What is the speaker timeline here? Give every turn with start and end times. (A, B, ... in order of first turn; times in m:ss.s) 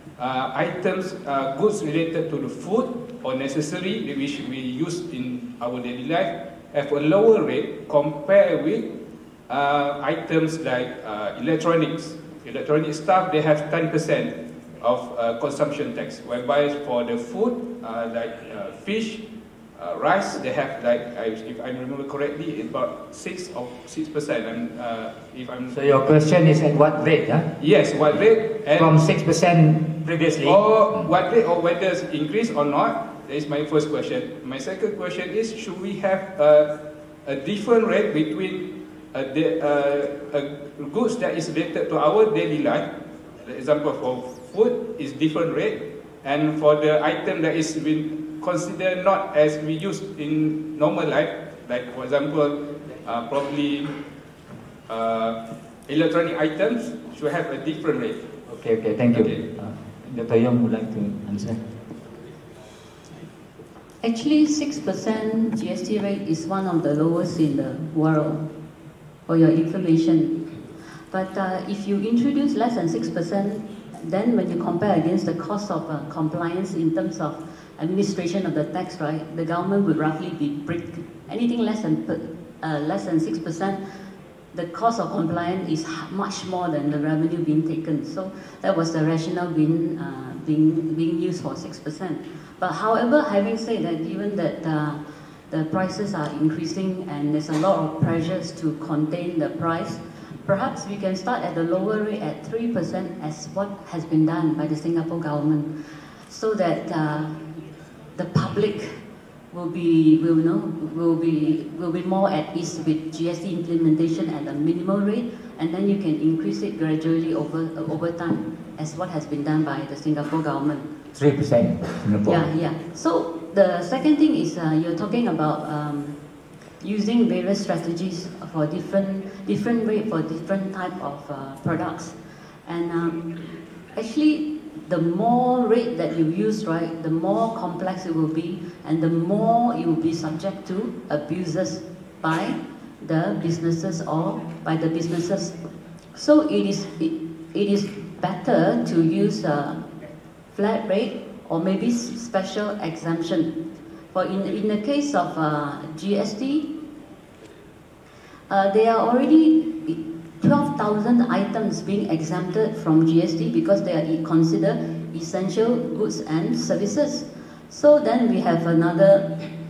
0:00.2-0:08.9 A
0:09.5-0:19.2 A
0:19.8-0:25.9 A
0:25.7-0:31.1 B
0:27.6-0:29.1 A
0:30.1-0:42.9 A
0:43.4-0:54.0 A
0:54.9-0:58.2 A
0:58.5-1:01.7 B
0:59.1-0:59.4 A
1:04.0-1:08.5 C
1:09.3-1:10.5 C
1:11.1-1:23.8 C
1:24.5-1:45.7 C
1:46.3-1:48.9 C
1:49.5-2:00.9 C
2:01.2-2:02.5 B
2:02.2-2:06.2 C
2:06.8-2:12.2 C
2:12.7-2:13.3 C
2:13.9-2:25.6 C
2:26.2-2:29.9 C
2:30.5-2:33.5 C
2:34.1-2:36.7 C
2:38.5-2:49.5 C